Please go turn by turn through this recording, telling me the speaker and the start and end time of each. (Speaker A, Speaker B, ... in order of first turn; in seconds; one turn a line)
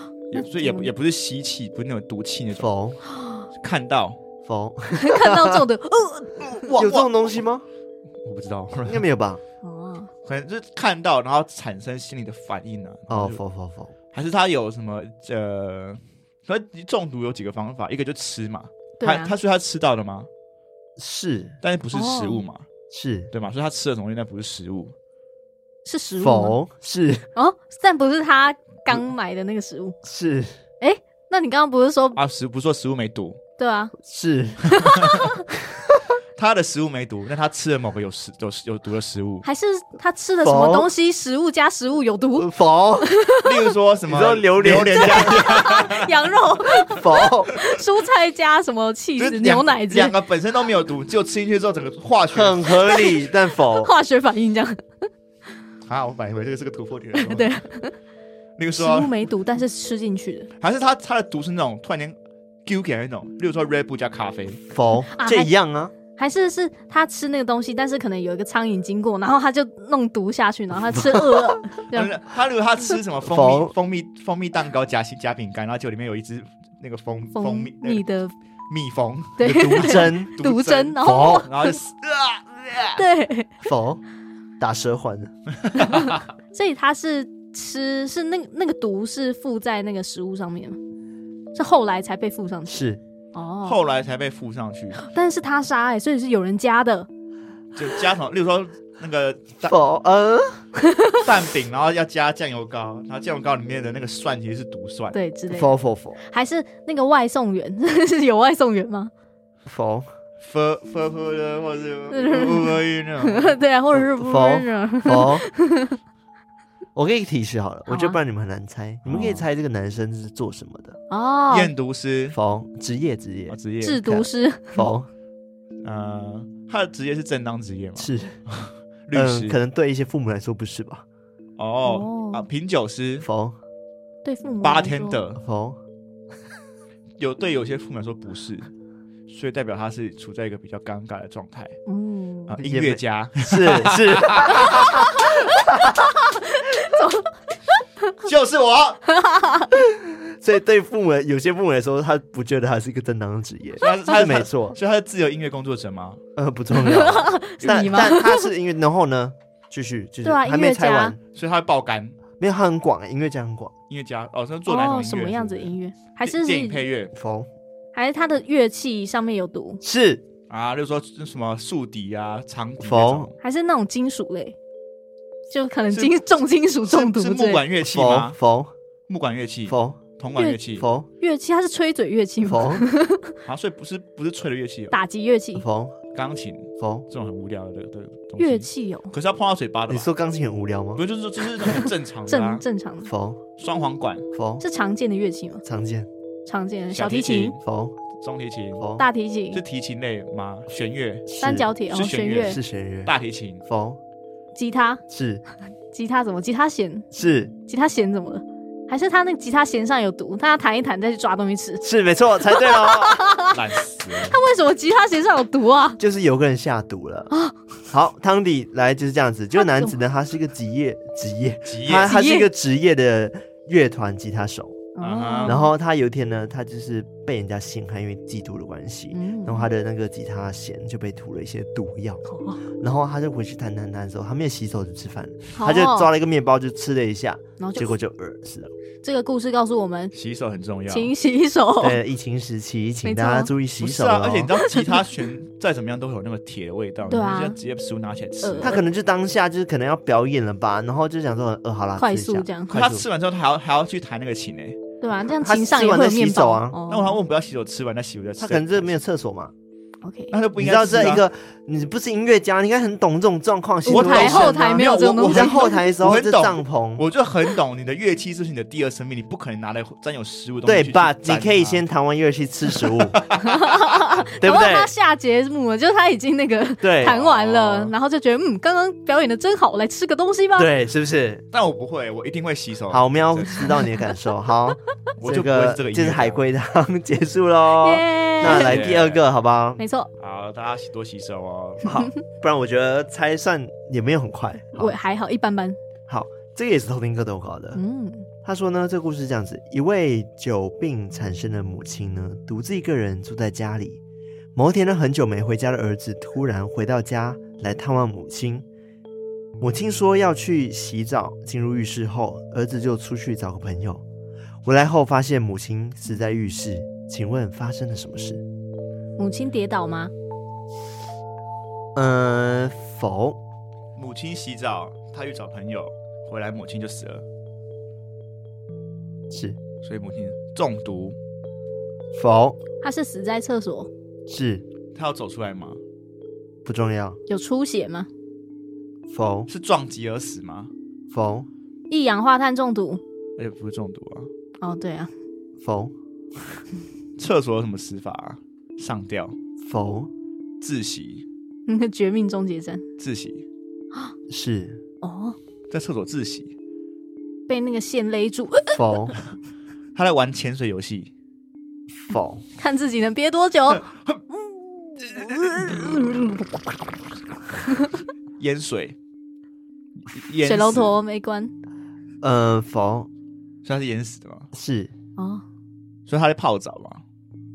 Speaker A: 0.3-2.7
Speaker B: 0.4-0.9
Speaker C: 2.5-3.0
Speaker B: 3.1-3.5
Speaker A: 3.6-4.2
Speaker C: 4.4-5.6
Speaker B: 4.9-6.8
Speaker A: 6.6-7.1
Speaker C: 6.7-7.7
Speaker A: 8.2-9.1
Speaker C: 8.9-9.4
Speaker B: 9.6-10.1
Speaker A: 10.2-13.4
Speaker C: 13.1-13.9
Speaker A: 14.1-20.3
Speaker B: 19.0-19.3
Speaker C: 21.0-21.6
Speaker A: 21.6-22.7
Speaker B: 21.9-22.4
Speaker C: 22.9-23.3
Speaker A: 23.3-24.9
Speaker B: 25.9-26.6
Speaker C: 26.2-27.3
Speaker B: 27.4-30.0
Speaker C: 30.0-30.6
Speaker B: 30.8-32.2
Speaker A: 32.2-33.4
Speaker B: 33.6-33.9
Speaker C: 34.0-34.7
Speaker B: 34.7-35.4
Speaker A: 34.7-35.3
Speaker C: 35.7-36.0
Speaker A: 36.4-39.5
Speaker B: 39.4-42.5
Speaker C: 40.4-40.9
Speaker C: 42.4-43.1
Speaker B: 43.0-43.7
Speaker A: 43.4-46.4
Speaker C: 44.1-45.5
Speaker B: 45.0-50.1
Speaker C: 46.9-47.5
Speaker A: 49.2-53.0
Speaker C: 52.3-53.9
Speaker B: 52.9-54.8
Speaker A: 55.9-57.6
Speaker B: 57.2-58.0
Speaker A: 58.6-59.2
Speaker B: 58.7-60.5
Speaker A: 60.6-64.6
Speaker C: 64.7-65.9
Speaker B: 65.1-65.5
Speaker B: 66.2-72.2
Speaker C: 70.9-71.5
Speaker A: 71.9-78.0
Speaker C: 73.2-73.8
Speaker B: 77.3-78.3
Speaker A: 78.7-83.0
Speaker B: 79.4-81.8
Speaker C: 79.4-80.3
Speaker C: 81.0-81.5
Speaker B: 83.0-83.5
Speaker C: 83.6-84.0
Speaker C: 84.6-85.3
Speaker A: 85.7-86.2
Speaker B: 85.8-90.8
Speaker B: 91.5-93.8
Speaker C: 92.7-93.0
Speaker A: 93.6-95.0
Speaker B: 95.0-97.1
Speaker A: 97.8-99.8
Speaker C: 99.6-100.7
Speaker B: 100.9-101.2
Speaker A: 101.2-105.2
Speaker B: 105.1-109.1
Speaker C: 105.5-106.2
Speaker C: 109.7-110.1
Speaker A: 110.4-113.6
Speaker B: 112.1-116.0
Speaker C: 114.2-115.5
Speaker C: 117.0-121.0
Speaker B: 117.9-118.2
Speaker A: 119.0-119.5
Speaker B: 121.1-121.7
Speaker A: 121.5-122.4
Speaker C: 122.3-125.1
Speaker A: 123.5-124.0
Speaker B: 123.8-124.9
Speaker A: 125.8-129.6
Speaker C: 128.0-128.4
Speaker C: 129.1-131.1
Speaker A: 131.6-133.3
Speaker B: 131.8-132.4
Speaker C: 133.2-133.6
Speaker B: 134.2-135.2
Speaker A: 134.6-135.4
Speaker C: 135.4-135.8
Speaker A: 137.2-138.7
Speaker A: 139.3-141.8
Speaker B: 141.9-142.6
Speaker A: 142.5-145.4
Speaker C: 142.6-145.9
Speaker B: 144.9-147.3
Speaker A: 148.2-149.1
Speaker B: 149.1-149.8
Speaker C: 149.8-154.8
Speaker A: 153.8-156.2
Speaker C: 156.4-161.2
Speaker B: 156.7-158.5
Speaker A: 157.6-158.1
Speaker B: 160.2-161.2
Speaker A: 161.3-162.2
Speaker C: 162.4-163.7
Speaker A: 163.9-167.1
Speaker B: 164.7-166.8
Speaker C: 167.1-167.5
Speaker B: 167.9-169.8
Speaker C: 169.8-170.2
Speaker A: 170.5-173.3
Speaker C: 172.8-173.3
Speaker B: 173.4-174.6
Speaker B: 175.5-177.7
Speaker A: 175.9-176.2
Speaker A: 176.8-178.4
Speaker C: 177.8-178.7
Speaker A: 179.1-180.9
Speaker C: 179.7-180.0
Speaker B: 180.4-180.6
Speaker C: 180.8-181.1
Speaker B: 181.2-183.3
Speaker C: 182.4-182.9
Speaker A: 183.4-184.9
Speaker B: 184.9-185.7
Speaker C: 185.6-186.0
Speaker A: 186.1-190.1
Speaker C: 186.8-187.1
Speaker B: 188.4-189.1
Speaker C: 189.9-191.0
Speaker A: 191.0-192.7
Speaker B: 192.3-193.1
Speaker C: 193.1-193.4
Speaker A: 193.6-194.3
Speaker C: 194.3-194.6
Speaker B: 194.6-195.6
Speaker C: 195.6-196.1
Speaker B: 196.5-197.6
Speaker A: 196.9-197.6
Speaker C: 197.6-197.9
Speaker A: 198.2-198.8
Speaker C: 198.8-199.1
Speaker B: 199.0-199.6
Speaker A: 199.5-201.3
Speaker C: 201.3-201.7
Speaker B: 201.4-202.6
Speaker A: 201.9-203.7
Speaker C: 202.4-203.1
Speaker C: 203.7-204.0
Speaker B: 204.6-205.0
Speaker C: 205.1-205.4
Speaker B: 205.9-207.1
Speaker C: 207.1-207.6
Speaker B: 207.7-211.8
Speaker C: 211.8-213.2
Speaker B: 212.5-216.0
Speaker A: 213.5-214.4
Speaker C: 216.0-217.3
Speaker B: 217.3-217.6
Speaker C: 217.9-224.8
Speaker B: 219.6-220.0
Speaker A: 221.7-222.1
Speaker B: 222.0-222.5
Speaker B: 224.9-225.7
Speaker A: 225.0-225.6
Speaker C: 225.4-232.2
Speaker B: 229.1-229.7
Speaker B: 232.3-232.6
Speaker C: 232.8-238.7
Speaker B: 235.5-236.1
Speaker B: 237.6-237.9
Speaker B: 239.0-240.1
Speaker A: 240.1-241.1
Speaker B: 240.9-242.0
Speaker C: 241.8-244.5
Speaker B: 243.0-243.5
Speaker A: 243.8-248.8
Speaker B: 244.6-245.0
Speaker B: 247.1-247.6
Speaker B: 248.4-248.8
Speaker C: 248.6-253.0
Speaker B: 252.0-252.8
Speaker A: 252.7-254.8
Speaker B: 255.0-257.2
Speaker C: 255.4-256.8
Speaker A: 256.9-259.0
Speaker C: 258.4-259.5
Speaker B: 260.0-260.4
Speaker A: 260.3-261.2
Speaker C: 260.6-267.1
Speaker B: 263.9-265.7
Speaker A: 263.9-271.8
Speaker C: 270.6-273.2
Speaker A: 272.8-273.9
Speaker B: 273.4-280.7
Speaker C: 274.4-274.9
Speaker C: 276.8-277.2
Speaker A: 277.0-277.9
Speaker C: 280.6-281.4
Speaker A: 281.5-283.9
Speaker C: 282.9-289.8
Speaker A: 285.2-286.4
Speaker B: 287.7-288.8
Speaker A: 288.4-289.2
Speaker B: 289.8-290.1
Speaker A: 290.2-291.9
Speaker C: 291.8-295.0
Speaker B: 294.8-295.8
Speaker C: 296.1-297.8
Speaker B: 297.8-298.3
Speaker C: 298.4-304.0
Speaker C: 304.6-308.7
Speaker C: 309.6-314.0
Speaker C: 314.6-318.4
Speaker B: 319.2-320.1
Speaker C: 321.9-323.4
Speaker A: 324.0-327.2
Speaker C: 329.3-329.6
Speaker A: 329.8-331.2
Speaker C: 332.1-332.6
Speaker B: 332.8-333.9
Speaker C: 334.3-334.7
Speaker A: 334.9-335.8
Speaker C: 336.6-337.2
Speaker B: 337.3-338.1
Speaker C: 339.1-339.5
Speaker A: 339.5-340.7
Speaker C: 341.1-341.5
Speaker B: 341.9-343.0
Speaker A: 343.4-344.3
Speaker B: 344.6-345.1
Speaker C: 345.6-346.6
Speaker A: 347.2-349.4
Speaker C: 349.6-350.1
Speaker A: 350.6-351.2
Speaker B: 351.7-352.8
Speaker A: 353.0-353.5
Speaker C: 354.3-354.8
Speaker B: 355.0-355.4
Speaker A: 355.7-356.5
Speaker B: 357.5-358.8
Speaker C: 358.7-359.2
Speaker A: 359.9-361.1
Speaker C: 362.0-362.4
Speaker B: 362.6-363.9
Speaker A: 365.0-366.2
Speaker A: 368.4-369.0
Speaker A: 370.1-371.0
Speaker B: 370.4-371.5
Speaker C: 372.2-373.1
Speaker A: 373.6-374.5
Speaker C: 374.5-374.9
Speaker B: 375.2-375.4
Speaker A: 376.1-377.0